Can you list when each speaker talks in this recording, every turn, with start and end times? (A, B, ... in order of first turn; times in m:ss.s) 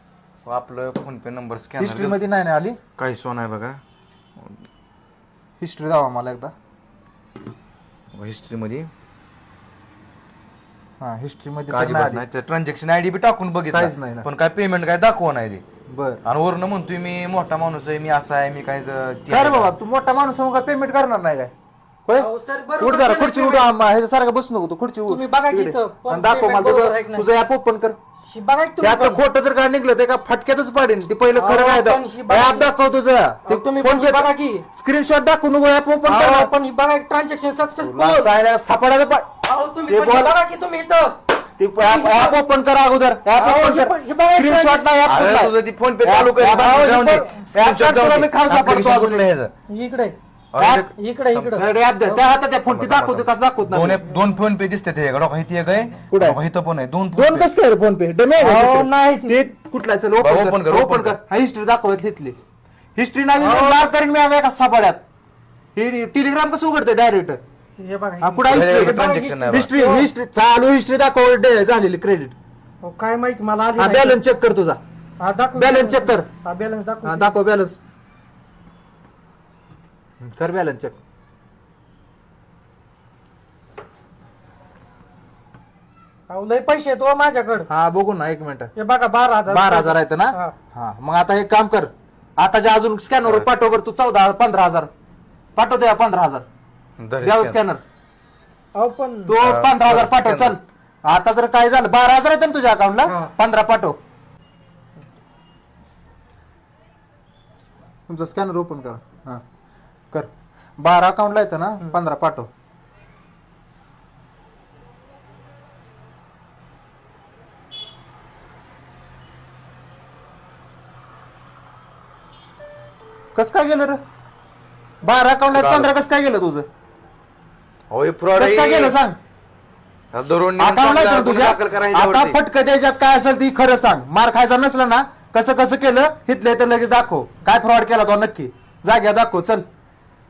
0:00.4-0:02.2 A
0:01.8-0:02.8 B
0:03.0-0:03.8 A
0:05.6-0:06.5 B
0:08.2-0:08.9 A
0:11.0-0:12.2 B
0:11.7-0:15.6 A
0:13.7-0:14.2 B
0:15.9-0:16.2 B
0:16.2-0:19.7 A
0:19.3-0:21.5 B
0:22.2-0:23.9 C
0:22.8-0:28.0 B
0:25.0-0:27.3 C
0:28.2-0:29.2 C
0:28.8-0:36.5 B
0:31.3-0:32.7 C
0:33.4-0:34.7 C
0:36.0-0:38.3 C
0:37.8-0:39.3 B
0:39.4-0:41.2 C
0:39.9-0:40.4 B
0:41.6-0:49.3 B
0:41.8-0:42.4 C
0:43.4-0:45.0 C
0:45.0-0:49.5 A
0:46.5-0:47.4 C
0:49.7-0:50.2 C
0:50.5-0:51.6 A
0:50.6-0:50.9 B
0:50.9-0:52.3 C
0:51.6-0:54.0 B
0:52.7-0:57.5 A
0:56.1-0:56.4 B
0:57.1-1:02.3 B
0:58.4-0:59.4 C
1:00.2-1:01.2 A
1:03.0-1:05.0 B
1:03.4-1:03.9 C
1:05.8-1:07.4 B
1:07.8-1:10.1 C
1:08.2-1:12.3 B
1:08.5-1:09.7 A
1:12.8-1:14.2 C
1:13.8-1:14.8 B
1:15.2-1:17.4 C
1:15.6-1:16.3 B
1:17.0-1:17.8 B
1:20.2-1:21.0 B
1:26.3-1:27.7 C
1:27.7-1:28.7 B
1:28.7-1:30.5 C
1:29.5-1:34.9 B
1:35.6-1:36.4 B
1:37.0-1:37.6 A
1:37.2-1:37.8 B
1:38.7-1:39.4 C
1:39.3-1:44.0 B
1:39.4-1:40.6 A
1:43.0-1:43.3 C
1:48.1-1:49.4 B
1:50.1-1:52.5 B
2:03.3-2:04.0 B
2:05.0-2:06.7 B
2:05.5-2:05.9 A
2:07.9-2:09.0 A
2:08.3-2:09.2 B
2:10.1-2:12.4 A
2:10.6-2:19.6 B